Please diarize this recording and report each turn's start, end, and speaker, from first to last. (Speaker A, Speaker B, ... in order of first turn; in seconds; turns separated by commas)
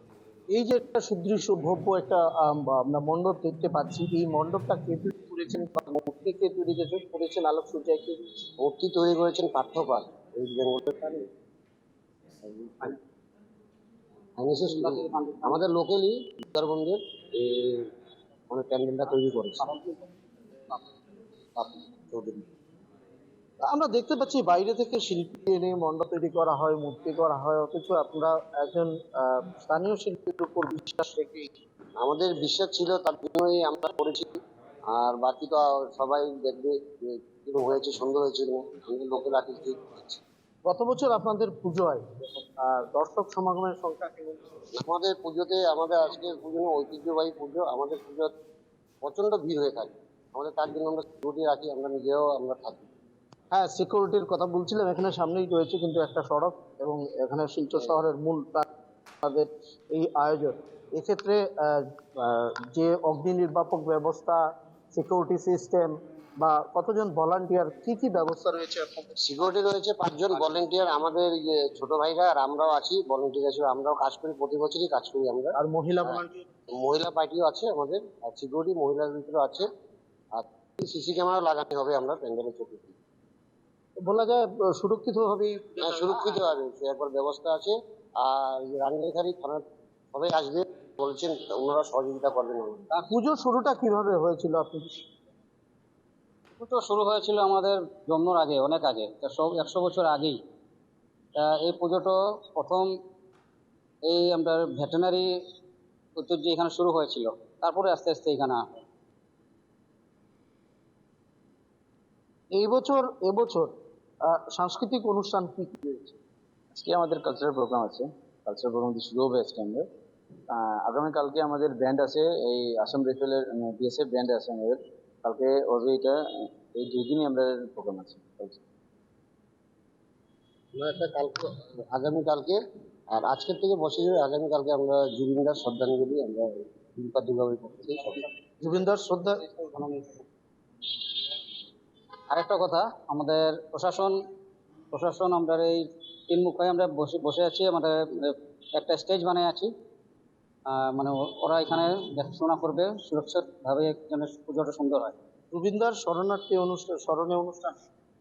Speaker A: 0.5-8.4, Speaker B: 8.6-11.2, Speaker B: 12.4-12.9, Speaker B: 14.4-17.9, Speaker C: 14.6-15.7, Speaker B: 18.5-19.6, Speaker C: 19.6-19.9, Speaker B: 21.6-22.4, Speaker A: 23.6-31.5, Speaker B: 32.0-34.3, Speaker B: 34.9-40.2, Speaker A: 40.6-44.4, Speaker B: 44.8-48.3, Speaker B: 49.0-52.9, Speaker A: 53.5-58.6, Speaker A: 59.2-64.4, Speaker A: 64.9-69.2, Speaker B: 69.2-76.2, Speaker A: 75.5-76.4, Speaker B: 76.8-79.7, Speaker B: 80.3-83.0, Speaker A: 84.0-86.3, Speaker B: 85.8-92.9, Speaker A: 93.1-95.0, Speaker C: 96.6-100.4, Speaker C: 101.3-102.9, Speaker C: 104.0-105.3, Speaker C: 106.2-108.8, Speaker A: 112.5-113.7, Speaker A: 114.3-116.1, Speaker D: 116.7-119.8, Speaker D: 120.5-126.2, Speaker D: 126.7-128.6, Speaker B: 130.7-132.6, Speaker B: 133.1-138.2, Speaker A: 138.6-139.4, Speaker C: 139.2-140.2, Speaker C: 142.3-144.2, Speaker C: 144.9-149.7, Speaker C: 150.7-155.1, Speaker A: 155.5-157.7